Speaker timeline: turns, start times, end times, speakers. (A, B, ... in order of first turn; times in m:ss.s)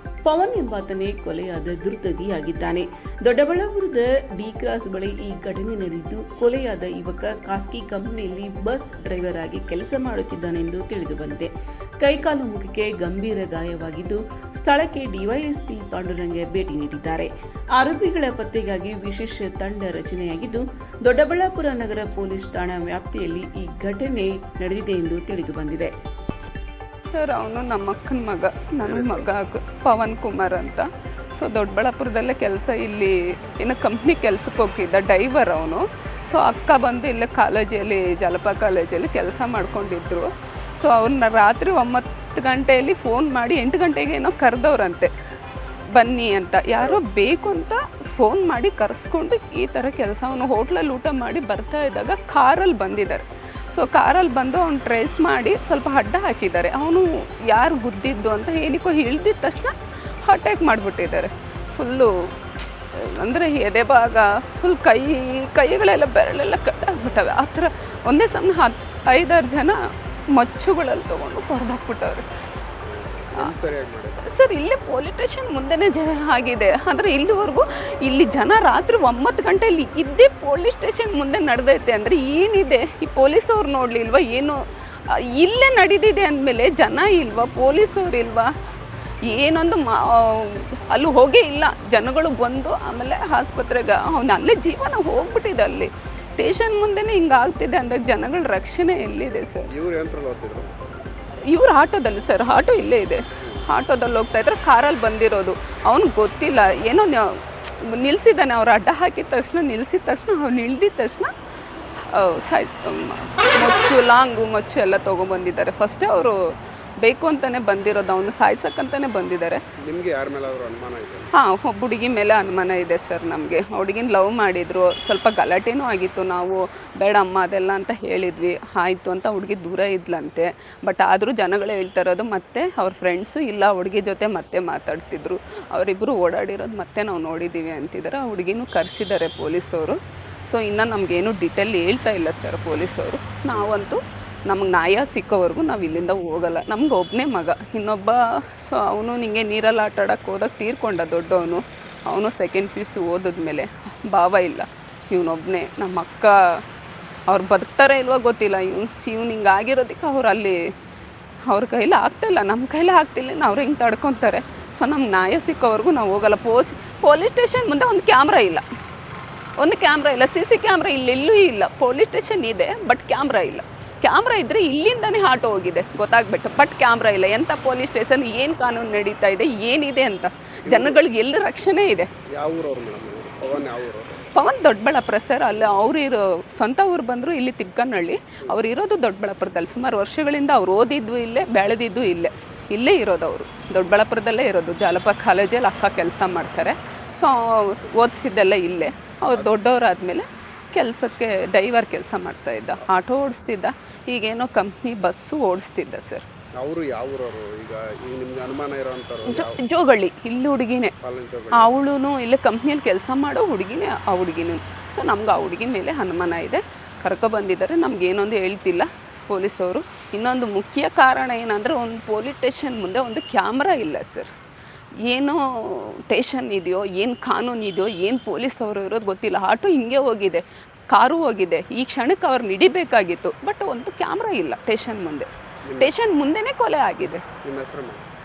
0:00.2-0:11.5 A
0:12.0-0:25.9 A
0:27.1-0:45.1 B
0:28.8-0:29.3 C
0:45.9-1:02.1 B
0:46.7-0:47.0 C
1:02.9-1:09.8 B
1:10.3-1:12.2 B
1:12.8-1:14.2 C
1:14.2-1:24.6 B
1:25.1-1:28.5 B
1:29.2-1:39.7 B
1:39.7-1:41.0 C
1:41.5-1:51.3 B
1:43.4-1:43.7 C
1:52.1-1:56.4 B
1:57.0-1:59.6 B
1:59.8-2:01.3 C
2:01.3-2:36.6 B
2:23.5-2:23.8 C
2:37.3-2:40.6 B
2:41.5-2:48.6 B
2:49.6-3:02.1 B
3:00.7-3:01.0 C
3:02.4-3:04.2 C
3:04.3-3:26.2 B
3:26.6-3:29.6 C
3:29.3-3:30.9 B
3:31.0-3:31.7 C
3:31.5-3:44.3 B
3:45.1-3:55.3 B
3:55.6-3:55.9 C
3:55.8-3:57.3 B
3:57.4-3:58.0 C